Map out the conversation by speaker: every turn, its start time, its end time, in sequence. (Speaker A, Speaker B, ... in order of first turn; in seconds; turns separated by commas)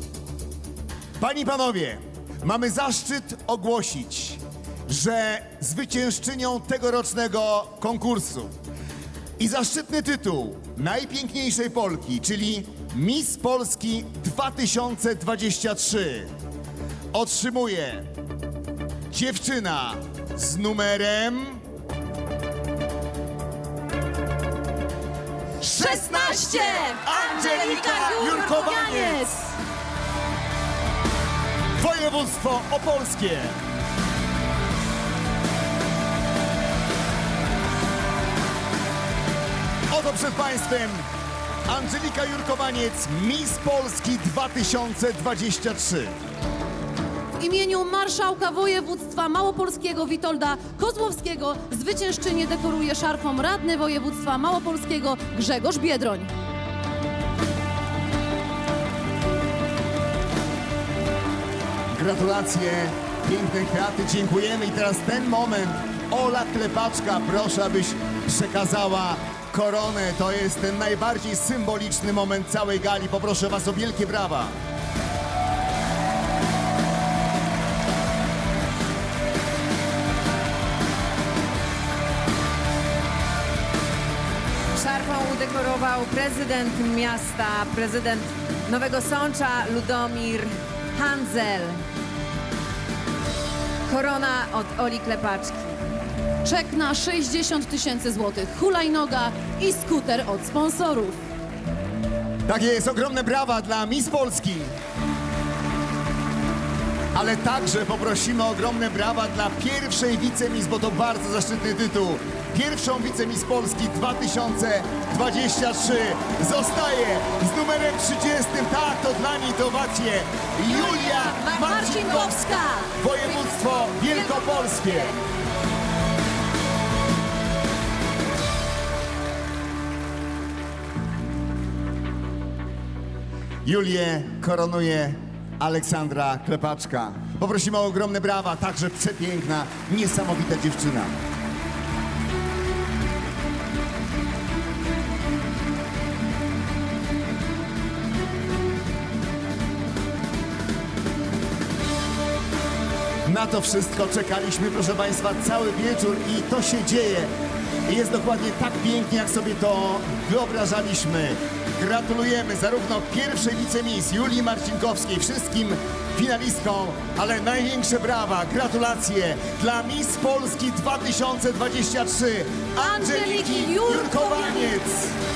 Speaker A: 1.2-8.5, Speaker A: 9.4-16.3, Speaker A: 17.1-18.1, Speaker A: 19.1-21.6, Speaker A: 25.6-29.2, Speaker B: 25.7-29.6, Speaker A: 31.8-33.6, Speaker A: 39.9-41.1, Speaker A: 41.7-46.1, Speaker B: 47.4-56.3, Speaker A: 61.9-74.6, Speaker C: 84.7-91.8, Speaker C: 93.9-95.8, Speaker B: 96.4-101.2, Speaker A: 102.5-104.7, Speaker A: 107.1-125.2, Speaker C: 120.6-125.2, Speaker B: 121.4-122.9, Speaker A: 133.6-141.1, Speaker A: 153.2-157.3, Speaker A: 157.8-175.1, Speaker B: 172.8-174.8